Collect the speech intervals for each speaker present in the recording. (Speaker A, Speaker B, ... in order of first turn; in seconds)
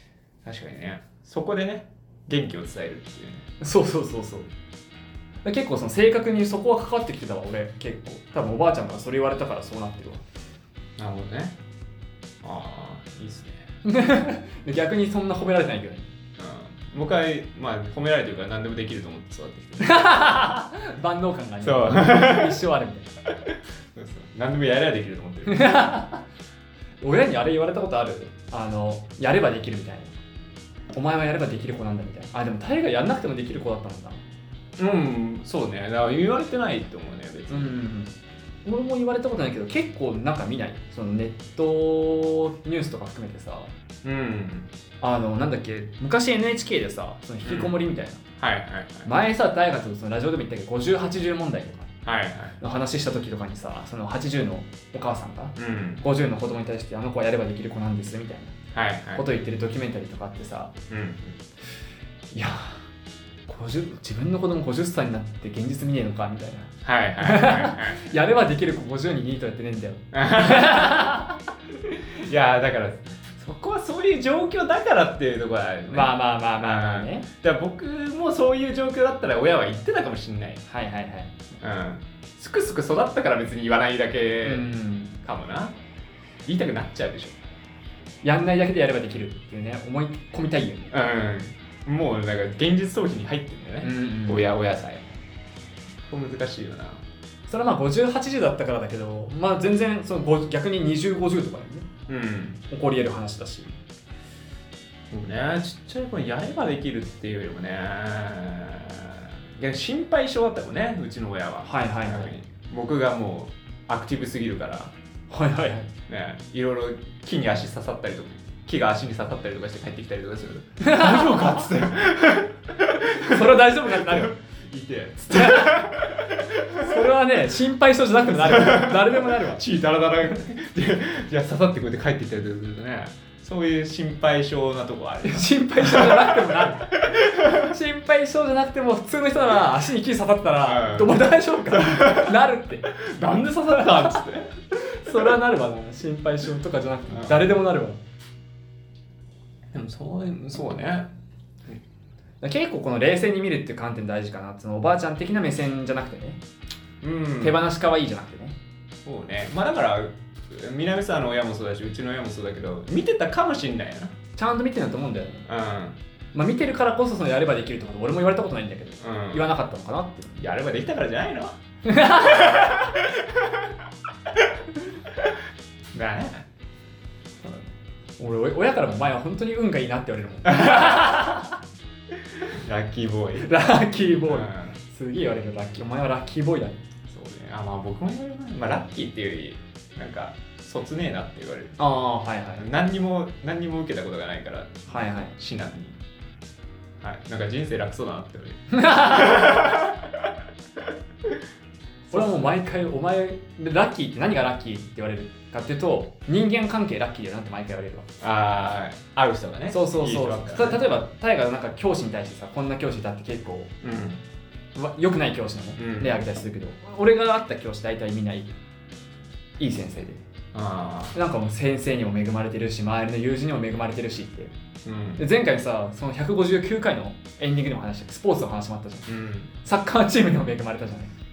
Speaker A: 0.4-3.5, 11.0-11.6, 12.4-13.7, 16.4-20.0, 21.6-22.6, 23.4-25.8, 34.8-37.8, 44.0-44.7, 47.4-47.8, 48.4-49.1, 52.0-52.5, 55.5-56.0, 58.7-59.3, 60.9-61.4, 66.8-68.1, 70.1-71.1, 71.8-80.6, 81.6-84.7, 85.2-85.8, 86.5-87.4, 90.9-95.2, 96.1-97.0, 102.1-102.6, 105.1-114.9, 116.1-127.1, 128.3-137.7, 140.6-145.3, 147.1-147.4, 149.7-151.1, 157.0-157.6, 159.0-164.1, 165.5-166.0, 169.0-169.5, 170.4-171.6, 172.1-173.7, 175.9-176.4, 180.6-181.0, 182.3-183.5, 184.3-184.8, 187.1-191.8, 192.6-196.0, 197.0-200.3, 208.2-210.9, 213.8-214.2, 215.8-216.2, 220.5-221.1, 224.8-225.2, 229.1-229.5
Speaker B: 3.6-4.5, 5.4-10.2, 13.8-16.1, 19.8-23.1, 25.4-26.2, 27.0-30.2, 30.9-34.2, 37.5-38.1, 38.6-43.7, 45.0-48.2, 49.0-51.9, 52.6-58.5, 59.1-60.7, 62.3-62.9, 63.5-71.4, 75.9-77.3, 80.7-81.4, 84.4-85.1, 88.2-90.9, 93.8-94.5, 97.5-101.9, 102.7-103.7, 111.6-112.3, 115.3-115.9, 120.8-121.7, 123.0-124.3, 125.3-126.0, 126.7-129.6, 135.2-143.0, 143.6-148.0, 152.4-156.4, 157.4-158.6, 164.3-165.5, 166.3-170.4, 171.8-172.9, 178.2-181.6, 183.4-186.8, 191.8-192.7, 194.9-195.3, 198.7-199.9, 202.1-208.1, 209.7-213.7, 214.7-218.5, 219.6-220.2, 221.1-224.5, 225.2-231.1